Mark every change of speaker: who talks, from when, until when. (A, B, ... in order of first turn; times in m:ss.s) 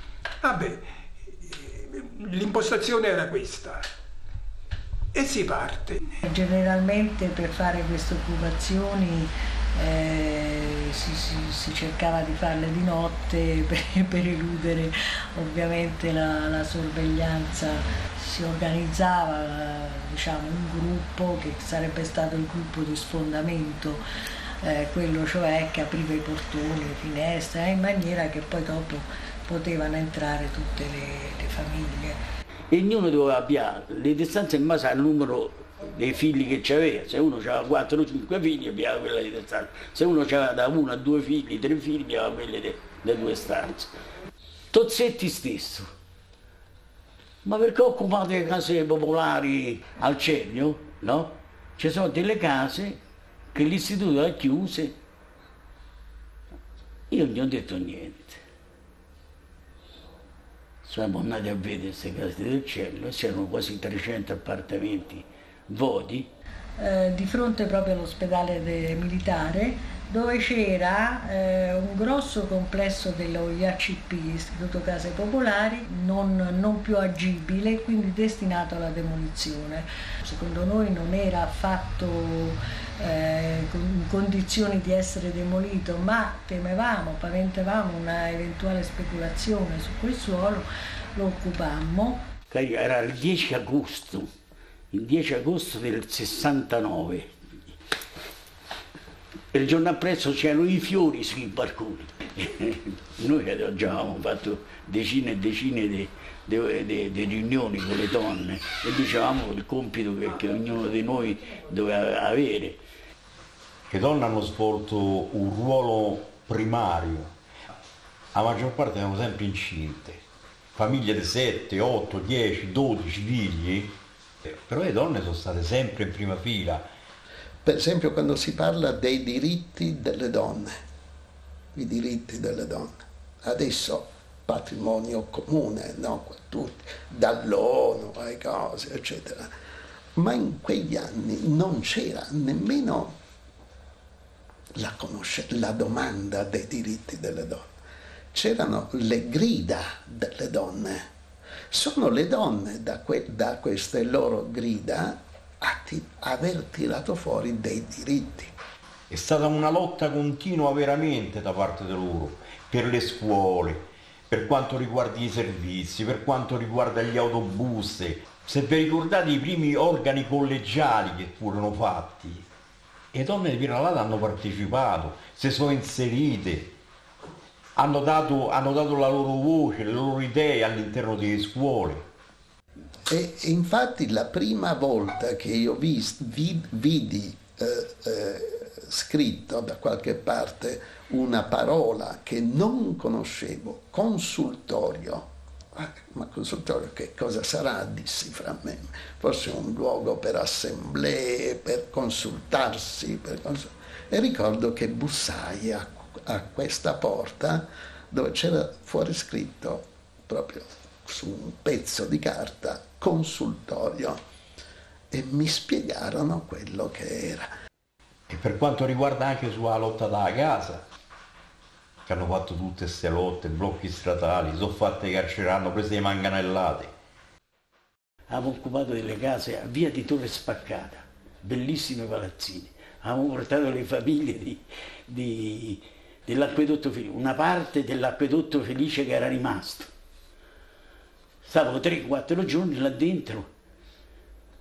0:00.4-0:03.9 A
0:05.1-0:06.2 A
0:06.2-0:24.0 B
0:24.6-0:32.2 B
0:32.7-0:43.9 C
0:44.7-0:45.9 C
0:47.4-0:53.0 C
0:53.5-0:55.0 C
0:57.1-0:58.4 C
1:00.8-1:06.3 C
1:06.8-1:32.3 B
1:32.5-1:34.3 C
1:34.9-1:37.3 C
1:39.5-1:52.8 C
1:53.9-1:57.3 D
1:58.3-2:00.2 D
2:00.7-2:06.9 D
2:07.6-2:10.8 E
2:11.7-2:19.5 E
2:20.2-2:23.1 E
2:24.8-2:27.7 E
2:28.3-2:31.1 E
2:31.7-2:38.5 E
2:39.1-2:52.4 D
2:53.1-2:56.7 D
2:57.8-3:02.0 D
3:03.1-3:34.2 E
3:35.1-3:37.5 E
3:38.3-3:40.8 D
3:42.1-3:46.9 D
3:48.3-3:59.9 C
4:01.4-4:03.5 C